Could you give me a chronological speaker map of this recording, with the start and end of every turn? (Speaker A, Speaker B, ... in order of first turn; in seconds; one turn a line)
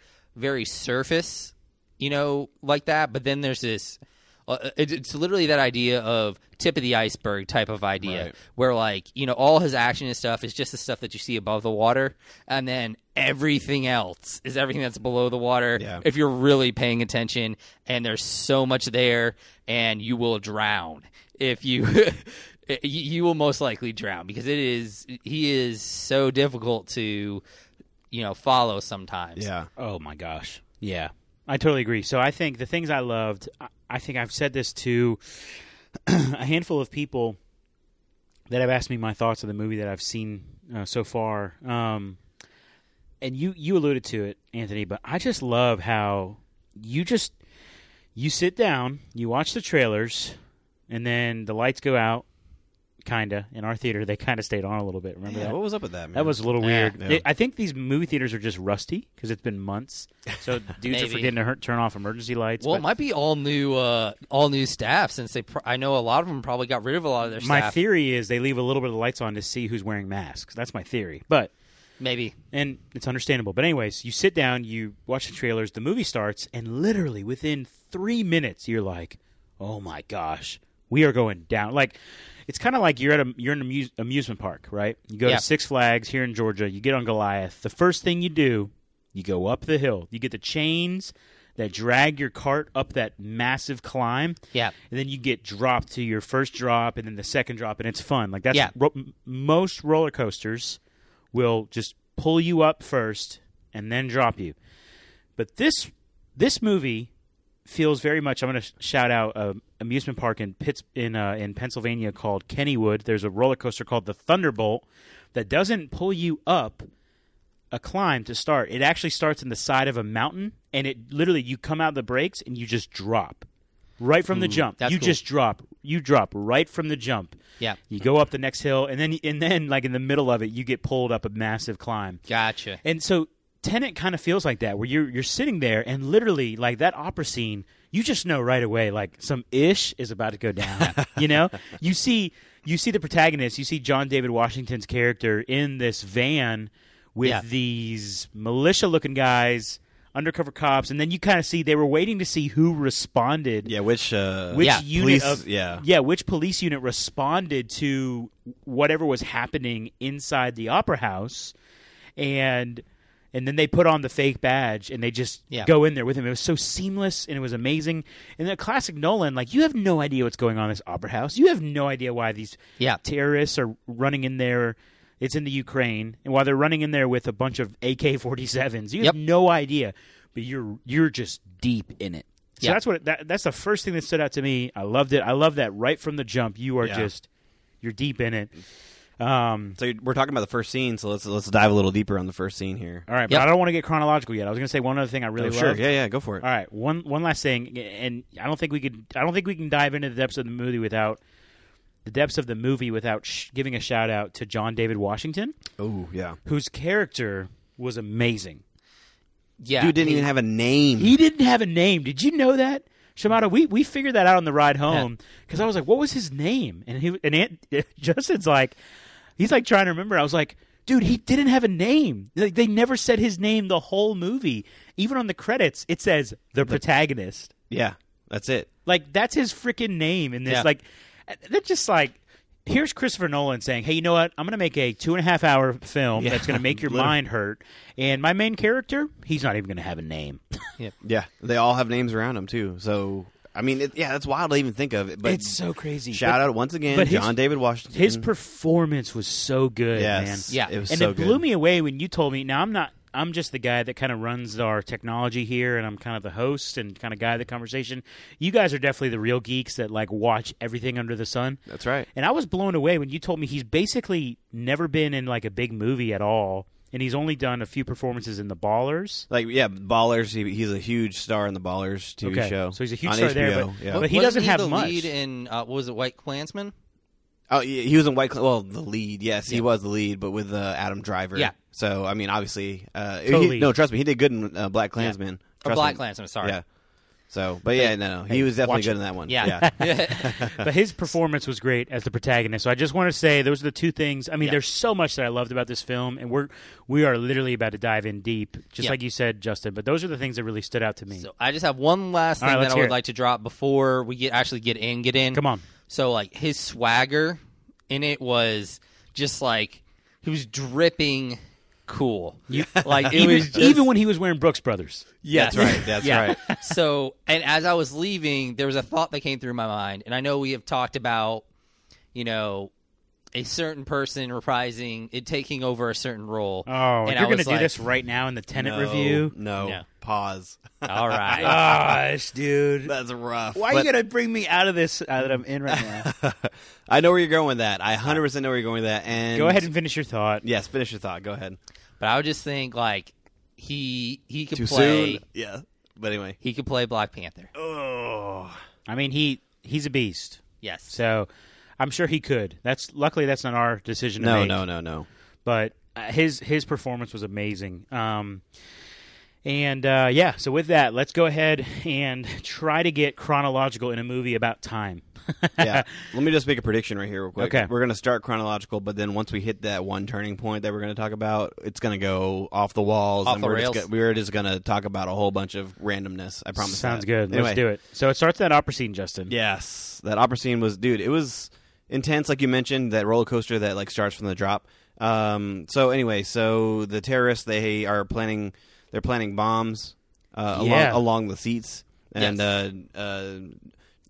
Speaker A: 0.4-27.4
Speaker B: 8.0-8.3
Speaker B: 15.8-16.0
Speaker A: 28.1-29.5
Speaker B: 29.4-29.7
Speaker C: 29.8-37.4
Speaker C: 38.5-42.2
Speaker C: 43.2-47.4
Speaker C: 48.2-50.4
Speaker C: 50.9-52.3
Speaker C: 53.0-55.6
Speaker B: 55.3-56.4
Speaker C: 56.1-62.9
Speaker A: 56.6-57.0
Speaker B: 57.0-57.2
Speaker A: 60.9-61.3
Speaker A: 62.6-67.8
Speaker C: 67.4-71.5
Speaker A: 72.0-72.3
Speaker C: 72.5-82.0
Speaker C: 82.5-94.4
Speaker C: 94.9-100.8
Speaker C: 101.3-104.6
Speaker C: 105.4-107.1
Speaker C: 107.7-116.9
Speaker C: 117.7-123.5
Speaker C: 124.0-127.4
Speaker A: 124.3-125.2
Speaker C: 127.9-132.2
Speaker A: 132.3-132.8
Speaker C: 132.8-153.7
Speaker B: 153.7-155.8
Speaker C: 154.5-161.5
Speaker C: 162.2-187.3
Speaker B: 186.8-187.1
Speaker C: 187.8-188.5
Speaker C: 189.2-189.8
Speaker B: 189.8-193.1
Speaker C: 193.1-195.8
Speaker B: 195.4-196.4
Speaker C: 196.4-201.2
Speaker C: 202.1-205.6
Speaker B: 205.8-206.4
Speaker C: 206.5-208.6
Speaker A: 209.6-210.3
Speaker B: 209.8-211.1
Speaker C: 211.0-218.8
Speaker C: 219.4-227.5
Speaker B: 227.7-228.7
Speaker C: 228.9-240.4
Speaker B: 236.2-237.2
Speaker B: 241.0-245.6
Speaker C: 245.2-247.3
Speaker B: 246.1-248.3
Speaker C: 247.9-261.6
Speaker B: 249.9-251.4
Speaker B: 261.7-262.1
Speaker C: 262.1-269.3
Speaker B: 269.3-274.1
Speaker C: 272.2-275.1
Speaker A: 273.9-276.7
Speaker B: 277.5-286.6
Speaker C: 283.3-283.7
Speaker A: 285.0-286.6
Speaker B: 287.3-290.7
Speaker C: 287.8-301.3
Speaker A: 289.3-290.4
Speaker A: 301.2-307.4
Speaker C: 302.4-302.9
Speaker C: 305.3-305.6
Speaker A: 307.9-313.9
Speaker C: 312.5-316.6
Speaker B: 312.8-313.2
Speaker A: 315.2-321.4
Speaker B: 315.3-316.4
Speaker A: 322.1-322.7
Speaker A: 323.3-327.8
Speaker C: 326.7-329.3
Speaker B: 328.6-331.9
Speaker A: 330.9-331.6
Speaker C: 331.4-332.9
Speaker B: 332.9-333.9
Speaker C: 333.5-336.1
Speaker B: 335.7-339.7
Speaker C: 339.3-340.4
Speaker B: 340.4-341.6
Speaker A: 342.0-345.2
Speaker B: 344.6-346.4
Speaker A: 346.4-347.5
Speaker B: 347.5-348.6
Speaker C: 348.9-351.3
Speaker A: 350.6-351.0
Speaker C: 351.8-354.6
Speaker B: 354.2-355.1
Speaker C: 355.4-358.4
Speaker C: 359.4-366.1
Speaker B: 365.6-377.6
Speaker C: 367.4-367.7
Speaker A: 373.2-373.9
Speaker C: 376.6-379.3
Speaker B: 379.3-393.6
Speaker C: 390.5-391.0
Speaker A: 392.2-392.4